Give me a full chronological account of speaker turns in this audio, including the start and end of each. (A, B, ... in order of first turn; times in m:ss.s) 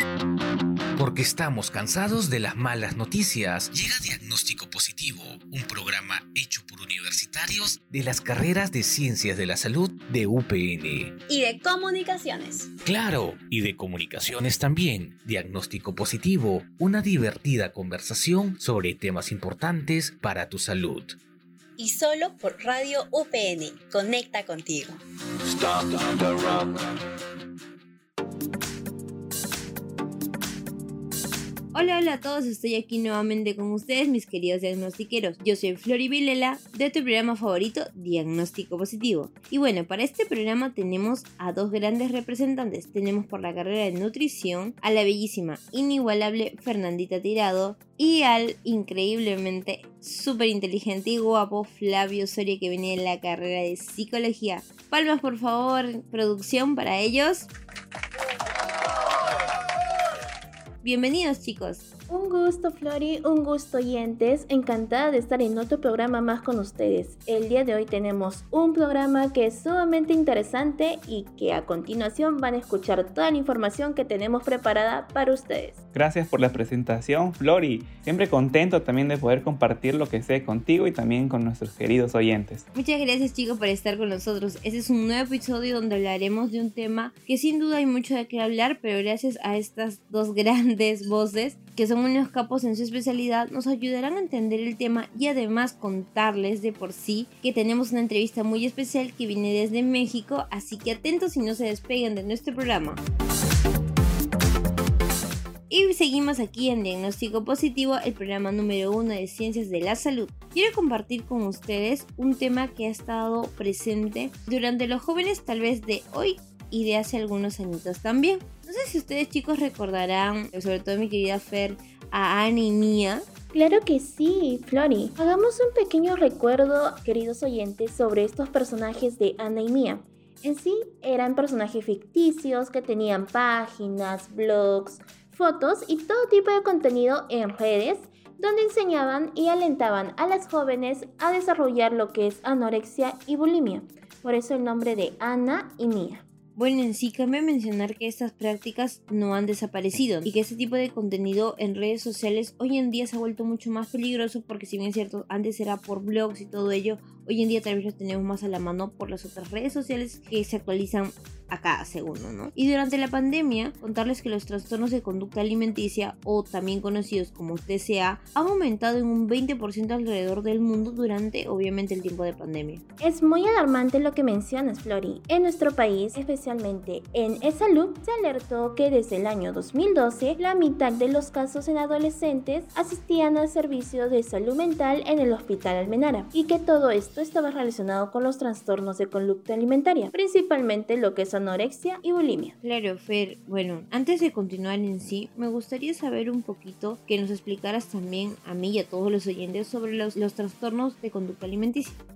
0:01.0-0:11.2 A
0:11.3-0:12.7 B
0:12.8-0:21.2 A
0:21.8-0:25.0 B
0:25.6-0:26.7 A
0:31.7-0:57.5 C
1:00.8-1:01.9 C
1:02.1-1:15.8 D
1:15.9-1:22.6 E
1:22.7-1:43.0 C
1:45.7-2:03.2 C
2:03.5-2:26.2 D
2:26.6-2:52.8 C
2:53.0-3:12.6 D
3:12.6-3:22.0 C